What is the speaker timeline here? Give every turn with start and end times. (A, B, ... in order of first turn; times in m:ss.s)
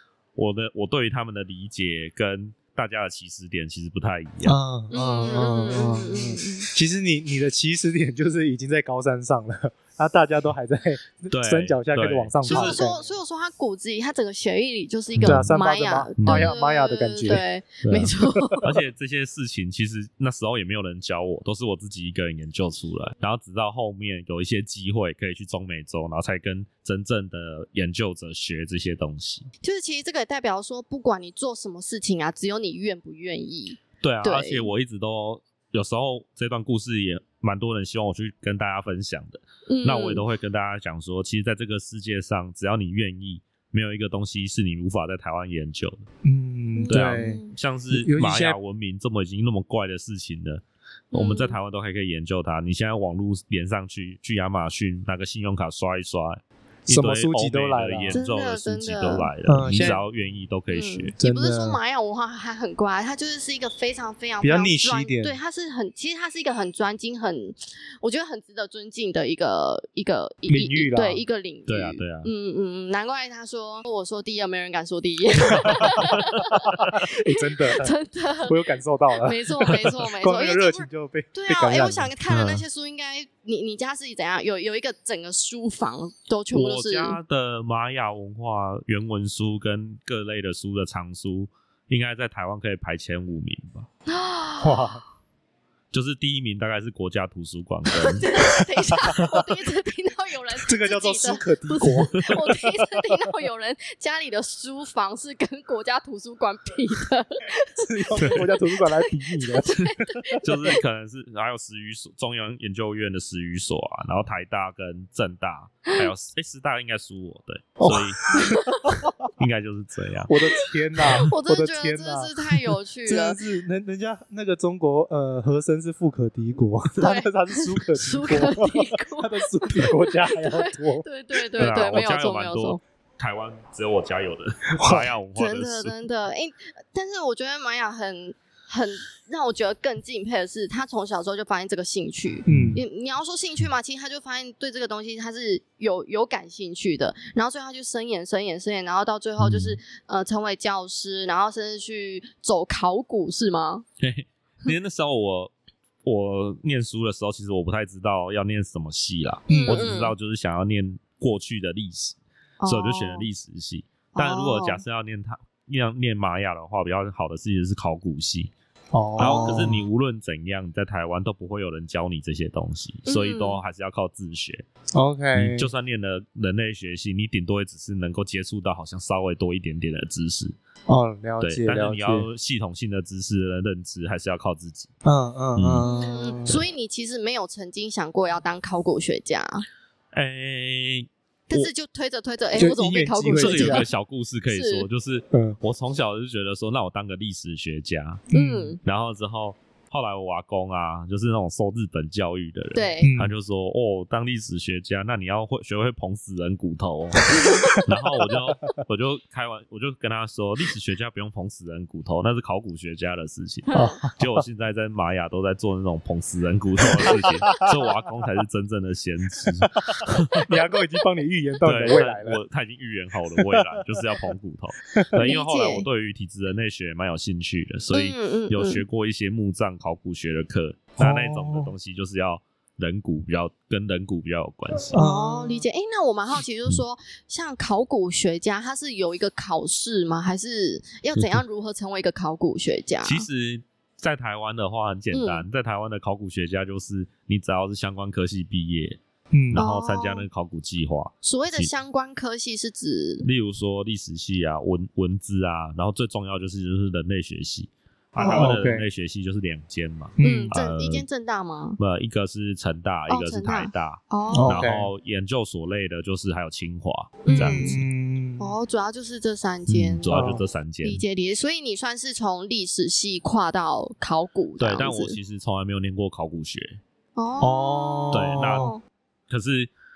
0:00.4-0:04.6 A
0:04.4-0:13.0 B
0:04.9-0:06.7 C
0:11.3-0:12.8 A
0:12.5-0:18.6 C
0:15.2-0:15.5 A
0:15.2-0:18.6 B
0:16.2-0:16.5 A
0:17.3-0:29.5 A
0:29.6-0:34.7 C
0:34.0-0:46.0 A
0:39.7-0:40.2 C
0:46.2-0:48.6 B
0:46.8-0:47.5 C
0:46.9-1:01.1 A
0:51.1-0:51.6 C
0:56.9-0:58.2 B
0:58.1-1:00.0 C
0:59.5-1:00.0 B
1:00.7-1:18.6 C
1:01.2-1:01.8 B
1:04.4-1:05.4 B
1:10.5-1:11.2 B
1:11.7-1:12.3 A
1:16.6-1:17.9 B
1:18.5-1:22.6 B
1:19.2-1:27.2 C
1:26.5-1:33.9 A
1:34.1-1:35.0 C
1:34.6-1:35.0 B
1:35.9-1:38.3 A
1:37.9-1:50.4 C
1:39.1-1:39.4 B
1:40.6-1:43.3 B
1:41.9-1:42.3 A
1:47.8-1:50.4 B
1:48.2-1:48.5 A
1:50.4-1:58.4 A
1:57.8-1:59.1 B
1:58.4-1:58.8 C
1:59.4-2:00.3 A
2:00.3-2:02.3 B
2:01.2-2:03.4 C
2:03.0-2:11.0 B
2:07.0-2:12.8 C
2:11.6-2:15.9 A
2:14.8-2:15.1 B
2:15.4-2:33.8 C
2:22.5-2:22.8 B
2:22.5-2:22.8 A
2:29.4-2:29.8 A
2:34.0-2:35.5 A
2:36.0-2:48.5 A
2:39.5-2:40.1 C
2:39.5-2:39.8 B
2:42.6-2:43.3 C
2:44.2-2:44.8 C
2:48.9-2:49.8 B
2:49.2-2:54.6 A
2:49.2-2:49.6 C
2:53.1-2:53.6 C
2:54.9-2:55.7 B
2:55.4-3:00.5 A
3:00.9-3:02.3 B
3:01.4-3:04.9 A
3:05.0-3:06.6 B
3:05.6-3:05.8 A
3:05.8-3:09.6 C
3:10.1-3:11.7 A
3:11.5-3:13.9 C
3:12.6-3:13.9 B
3:13.4-3:18.2 A
3:14.5-3:14.9 C
3:15.3-3:15.6 B
3:18.3-3:18.8 B
3:18.3-3:18.8 C
3:18.8-3:40.5 A
3:22.8-3:23.1 C
3:23.0-3:23.4 B
3:27.3-3:27.8 C
3:33.7-3:34.0 C
3:33.7-3:34.4 B
3:37.0-3:37.3 B
3:39.8-3:42.4 B
3:41.6-3:55.0 A
3:43.3-3:44.2 B
3:44.9-3:45.3 B
3:45.2-3:45.9 C
3:47.9-3:48.8 C
3:51.0-3:51.7 B
3:54.9-3:55.6 B
3:54.9-4:03.3 C
4:03.0-4:09.0 A
4:05.1-4:05.5 C
4:09.3-4:09.6 B
4:09.5-4:11.7 A
4:09.6-4:10.3 C
4:11.2-4:13.3 C
4:13.2-4:21.0 A
4:18.2-4:18.5 C
4:18.2-4:18.9 B
4:20.2-4:20.5 B
4:20.2-4:21.8 C
4:21.8-4:27.8 A
4:23.1-4:24.6 C
4:24.3-4:24.9 B
4:27.2-4:27.8 C
4:27.3-4:28.6 B
4:28.4-4:35.2 C
4:29.7-4:31.0 A
4:30.1-4:30.4 B
4:34.6-4:36.8 A
4:37.2-4:38.8 C
4:37.4-4:38.7 B
4:38.1-4:38.7 A
4:39.3-4:39.7 A